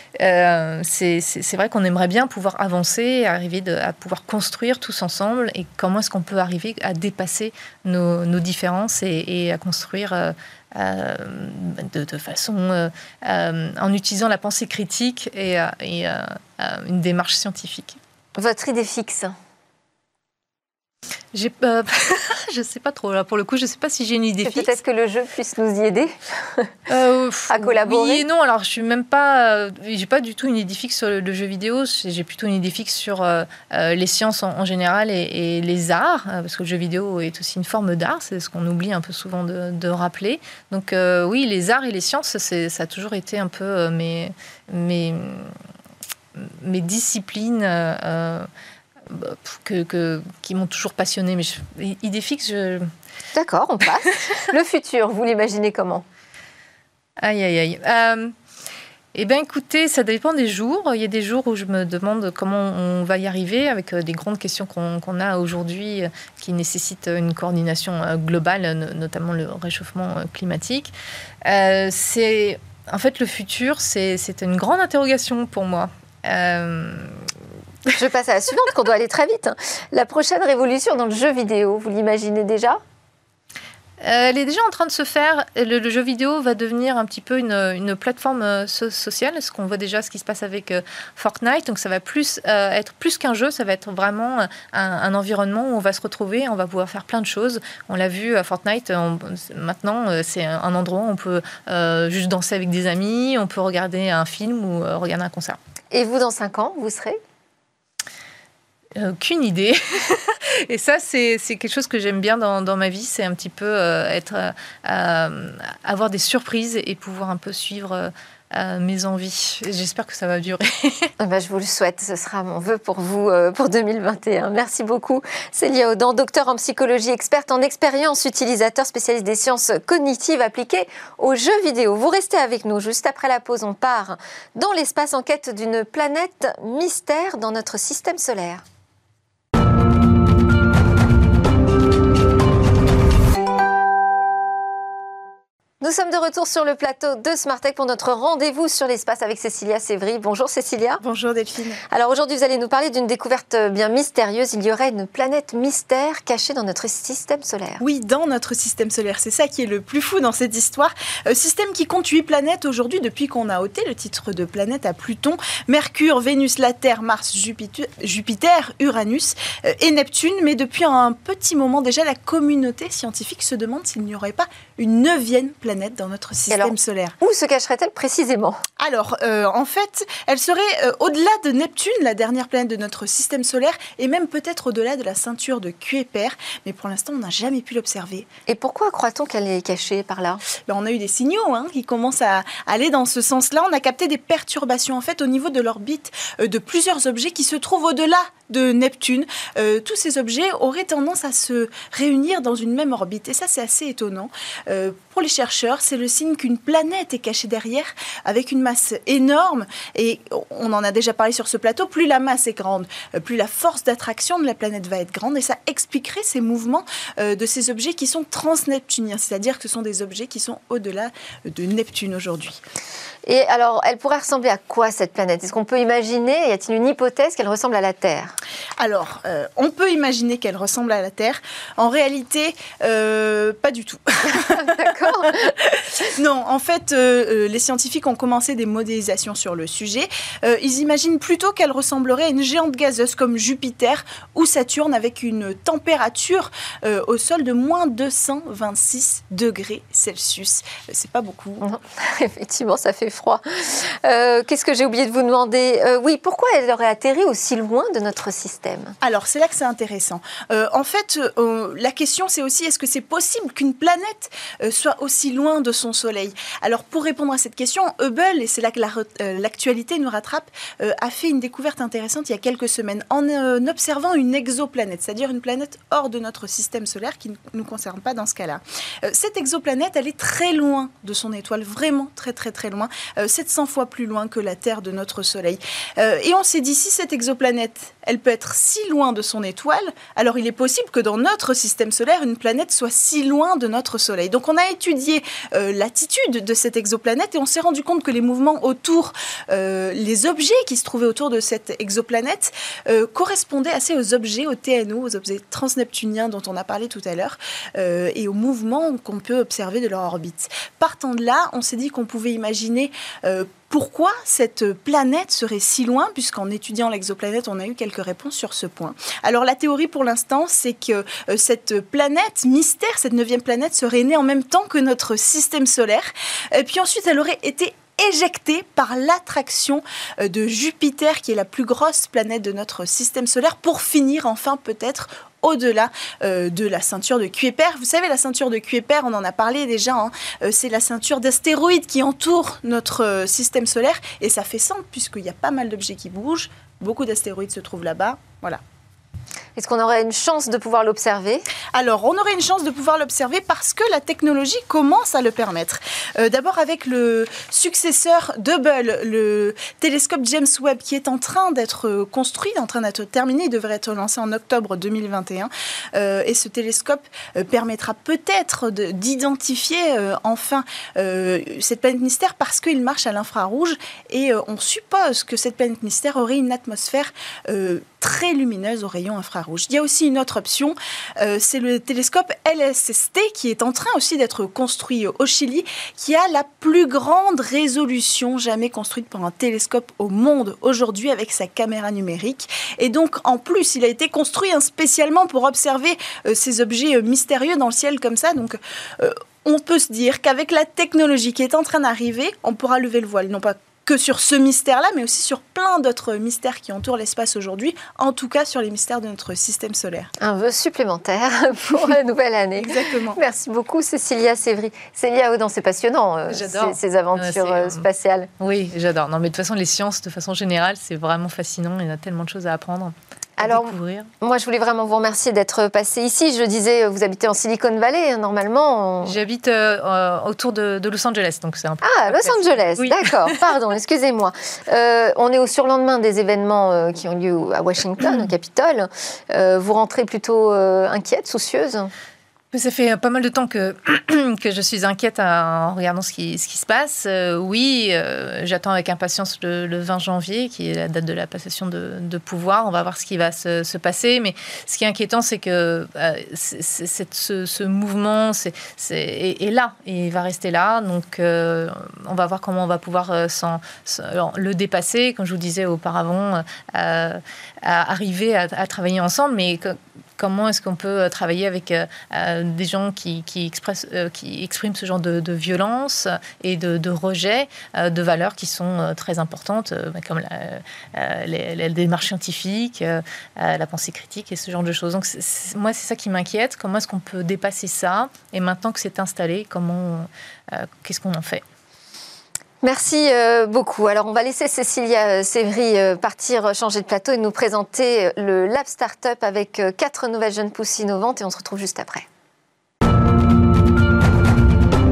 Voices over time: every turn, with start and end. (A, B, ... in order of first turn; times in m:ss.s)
0:00.2-0:18.0 A
0:18.4-0:19.4 B
0:21.3-0:24.8 A
0:24.4-0:26.7 B
0:26.9-0:45.5 A
0:27.5-0:28.2 B
0:46.4-0:48.5 A
0:49.1-0:52.9 A
0:53.3-0:56.0 B
0:57.2-0:58.3 A
0:59.1-1:10.9 A
1:11.4-1:17.2 A
1:18.0-1:22.8 B
1:24.0-1:45.6 A
1:45.9-1:47.2 B
1:49.0-2:01.1 A
2:01.2-2:18.6 B
2:25.8-2:31.0 B
2:31.0-2:31.8 C
2:31.9-2:37.8 B
2:37.8-2:57.2 C
2:56.5-2:58.6 B
2:58.8-3:08.3 C
3:08.5-3:10.4 B
3:10.7-3:42.6 C
3:43.3-3:48.3 B
3:48.8-3:54.8 C
3:54.4-3:55.6 B
3:55.5-4:11.6 C
4:11.6-4:19.0 B
4:19.0-5:48.6 C
5:49.6-5:51.5 B
5:51.7-6:50.1 C
6:50.2-6:58.3 B
6:52.6-6:53.2 C
6:56.3-6:57.9 A
6:58.4-7:04.1 A
7:03.4-7:09.2 B
7:09.0-7:13.4 A
7:11.8-7:21.9 B
7:22.5-8:11.4 A
8:12.6-8:22.1 B